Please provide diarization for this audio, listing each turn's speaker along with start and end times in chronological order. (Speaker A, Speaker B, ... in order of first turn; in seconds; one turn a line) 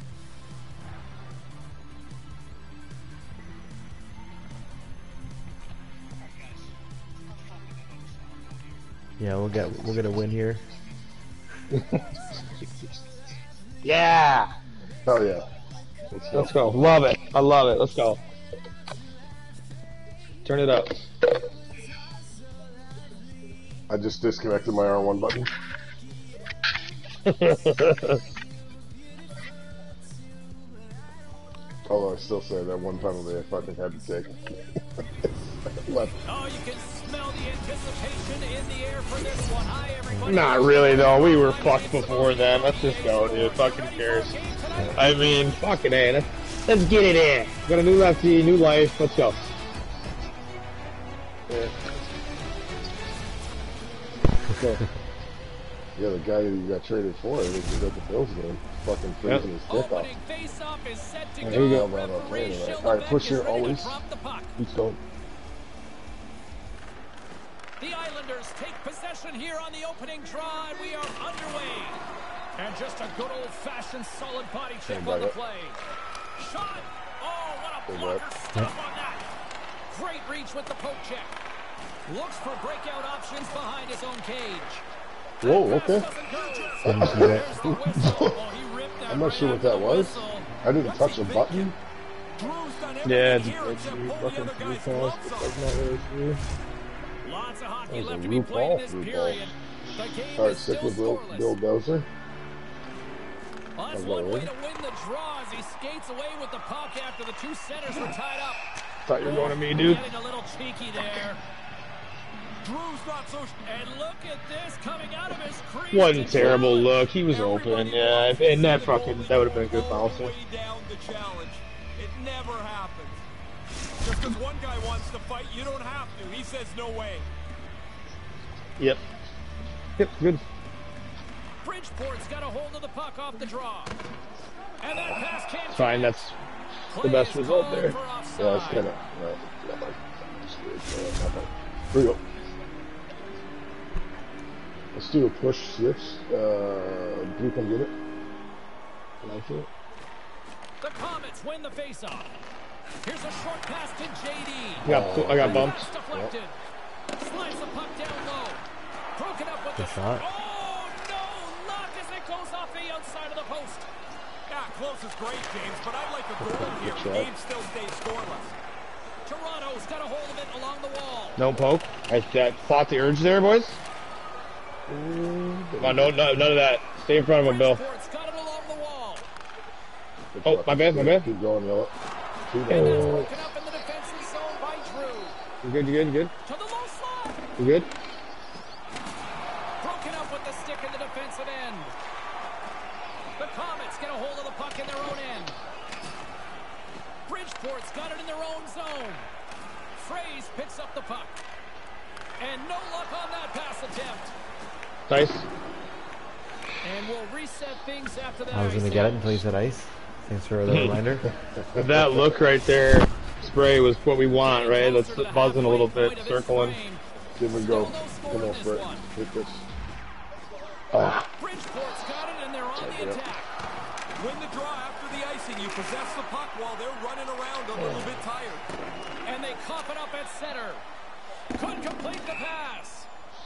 Speaker A: 9.2-10.7
Speaker B: 11.7-12.0
Speaker B: 13.8-14.5
Speaker C: 15.1-15.5
Speaker C: 16.1-16.8
Speaker B: 16.3-18.2
Speaker B: 20.4-20.9
Speaker C: 23.9-25.5
Speaker B: 27.2-28.2
Speaker C: 31.9-34.5
Speaker C: 35.7-36.2
Speaker D: 36.2-45.4
Speaker A: 40.1-40.4
Speaker B: 40.3-44.3
Speaker B: 44.9-49.4
Speaker C: 51.5-51.8
Speaker C: 56.0-60.1
Speaker D: 59.7-64.6
Speaker B: 61.4-61.9
Speaker C: 61.5-64.0
Speaker B: 64.6-65.0
Speaker D: 67.8-72.0
Speaker D: 72.6-75.8
Speaker C: 74.9-75.3
Speaker D: 76.4-79.3
Speaker C: 77.9-78.2
Speaker D: 79.9-81.4
Speaker D: 82.1-84.8
Speaker C: 85.4-86.1
Speaker D: 85.4-90.5
Speaker C: 86.8-88.4
Speaker A: 86.8-87.5
Speaker C: 89.1-91.8
Speaker E: 90.8-91.7
Speaker E: 92.4-95.6
Speaker B: 93.0-96.4
Speaker D: 97.2-101.6
Speaker C: 97.9-99.5
Speaker C: 100.4-102.1
Speaker D: 103.8-108.6
Speaker C: 103.9-104.5
Speaker B: 109.1-110.0
Speaker D: 109.2-111.4
Speaker E: 112.6-113.6
Speaker D: 113.6-119.1
Speaker B: 115.9-120.3
Speaker E: 118.6-123.2
Speaker E: 124.0-127.3
Speaker B: 130.0-130.4
Speaker D: 131.6-134.0
Speaker D: 134.8-136.3
Speaker B: 135.7-136.3
Speaker D: 136.9-138.9
Speaker B: 137.0-138.0
Speaker C: 138.4-142.2
Speaker C: 144.9-147.9
Speaker B: 149.2-149.7
Speaker D: 150.8-152.3
Speaker D: 153.0-156.6
Speaker C: 154.8-156.3
Speaker B: 154.8-155.9
Speaker D: 157.2-158.7
Speaker D: 159.2-163.9
Speaker A: 159.8-160.2
Speaker E: 164.5-168.6
Speaker C: 166.4-167.3
Speaker D: 169.3-171.4
Speaker B: 171.4-173.8
Speaker C: 174.9-176.4
Speaker B: 175.8-177.8
Speaker D: 177.4-179.3
Speaker C: 180.3-181.9
Speaker B: 180.4-181.3
Speaker C: 182.5-183.2
Speaker B: 182.7-183.3
Speaker D: 182.7-185.4
Speaker B: 185.6-186.3
Speaker D: 186.4-187.4
Speaker B: 187.6-187.9
Speaker D: 189.8-191.9
Speaker D: 193.4-195.6
Speaker D: 197.3-199.3
Speaker D: 199.9-201.4
Speaker D: 202.4-204.3
Speaker B: 205.1-205.4
Speaker D: 206.8-209.4
Speaker A: 208.5-211.3
Speaker B: 210.7-211.0
Speaker C: 211.3-212.3
Speaker B: 211.8-216.8
Speaker D: 214.4-219.1
Speaker C: 217.4-219.7
Speaker C: 221.0-221.3
Speaker D: 221.3-223.5
Speaker C: 222.8-223.2
Speaker E: 224.2-228.7
Speaker C: 227.8-228.2
Speaker D: 229.2-230.8
Speaker D: 231.6-233.1